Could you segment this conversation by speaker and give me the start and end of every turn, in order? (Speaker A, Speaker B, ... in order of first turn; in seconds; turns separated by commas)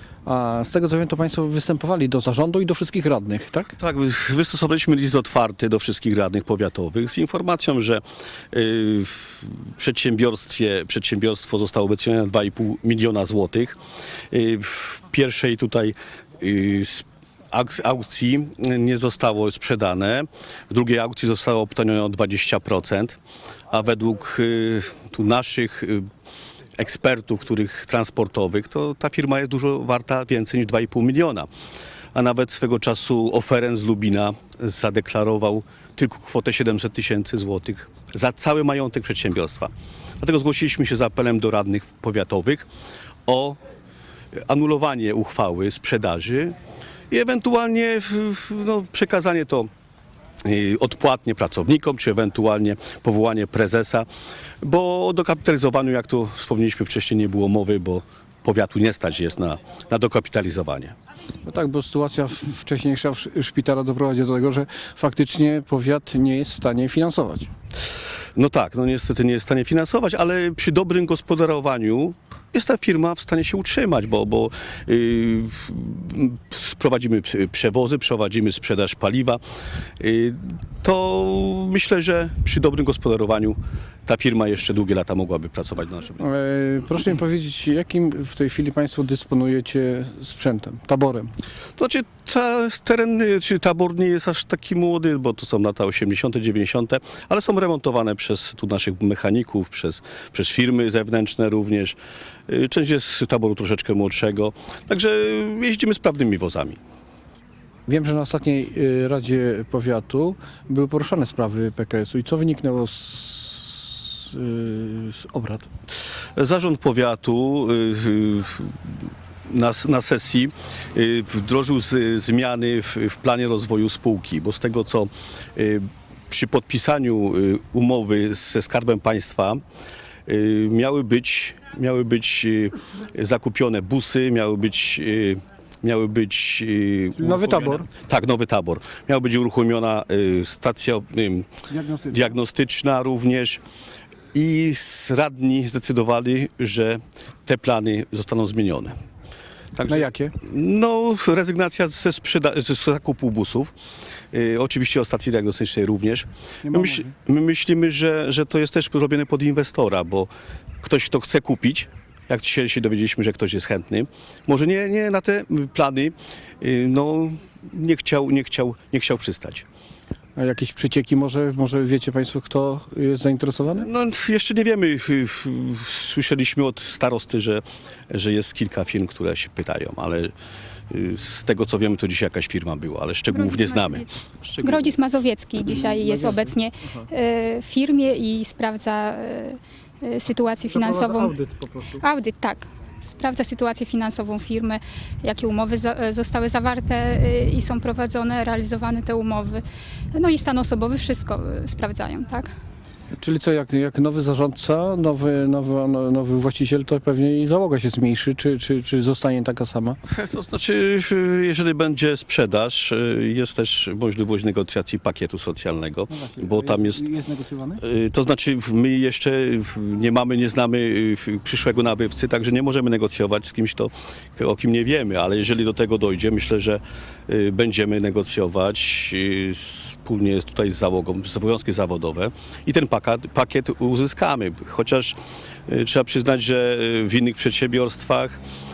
Speaker A: 0.3-3.7, Speaker B: 3.8-13.8, Speaker B: 14.3-23.2, Speaker B: 23.7-26.1, Speaker B: 26.8-31.5, Speaker B: 32.1-42.7, Speaker B: 43.3-43.6, Speaker B: 44.5-46.6, Speaker B: 47.1-49.7, Speaker B: 50.5-54.1, Speaker B: 54.6-61.0, Speaker A: 61.4-67.5, Speaker B: 68.4-79.4, Speaker B: 80.0-86.2, Speaker A: 86.2-91.3, Speaker B: 91.8-102.0, Speaker B: 102.5-106.8, Speaker A: 107.9-115.7, Speaker B: 116.4-118.8, Speaker B: 119.5-129.6, Speaker B: 130.3-141.5, Speaker A: 137.2-137.9, Speaker A: 141.7-142.2, Speaker B: 142.1-143.6, Speaker B: 144.3-149.0, Speaker B: 149.8-153.7, Speaker A: 149.9-150.3, Speaker B: 154.3-160.3, Speaker A: 156.7-157.1, Speaker B: 160.8-169.7, Speaker A: 170.4-173.9, Speaker B: 173.8-180.3, Speaker B: 180.9-184.9, Speaker C: 183.3-184.1, Speaker C: 184.6-202.5, Speaker A: 186.1-186.4, Speaker A: 190.9-191.8, Speaker A: 203.2-210.0, Speaker B: 210.1-217.1, Speaker A: 216.1-217.8, Speaker B: 217.8-235.2, Speaker B: 235.7-238.4